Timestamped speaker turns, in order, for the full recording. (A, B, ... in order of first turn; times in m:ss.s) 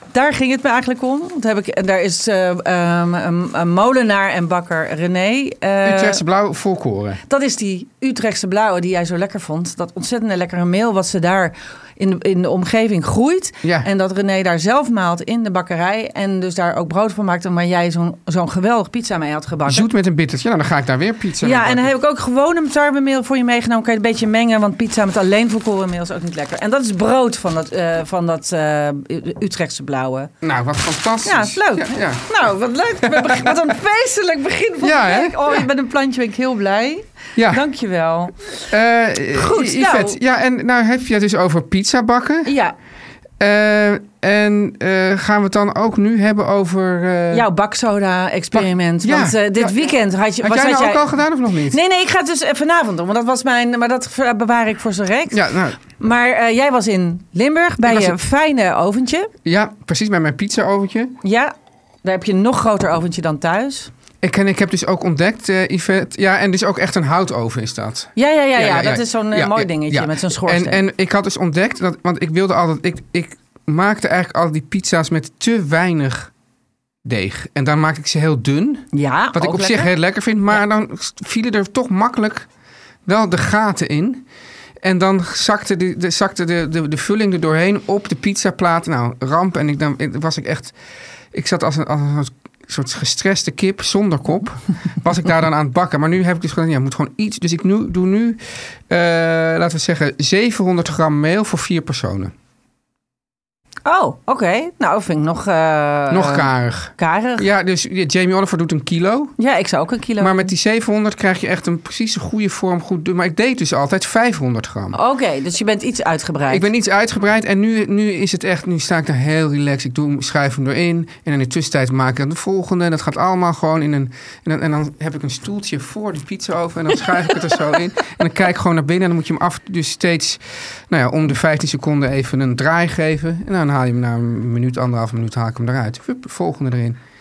0:00.1-0:06.2 A
0:05.8-0:07.2 B
0:07.3-0:19.9 A
0:13.6-0:13.9 B
0:19.7-0:21.9 B
0:21.4-0:30.3 A
0:30.4-0:32.5 B
0:31.2-0:38.6 A
0:33.0-0:33.8 B
0:34.8-0:35.6 B
0:37.4-0:37.6 B
0:38.7-0:42.5 B
0:39.4-0:40.2 A
0:42.4-0:42.8 A
0:43.4-0:47.5 B
0:47.3-0:51.1 A
0:48.5-0:51.8 B
0:51.7-0:59.3 A
0:55.3-0:55.8 B
0:57.8-0:58.2 B
0:59.4-1:01.2 B
1:01.2-1:01.5 A
1:02.0-1:03.9 A
1:04.2-1:16.3 B
1:08.2-1:10.8 A
1:17.0-1:22.5 B
1:18.9-1:19.9 A
1:23.1-1:24.2 B
1:24.8-1:30.8 B
1:31.3-1:42.3 B
1:43.8-1:47.5 A
1:46.1-1:49.3 B
1:49.4-1:50.5 A
1:50.2-1:55.0 B
1:54.9-1:56.7 A
1:56.5-2:17.0 B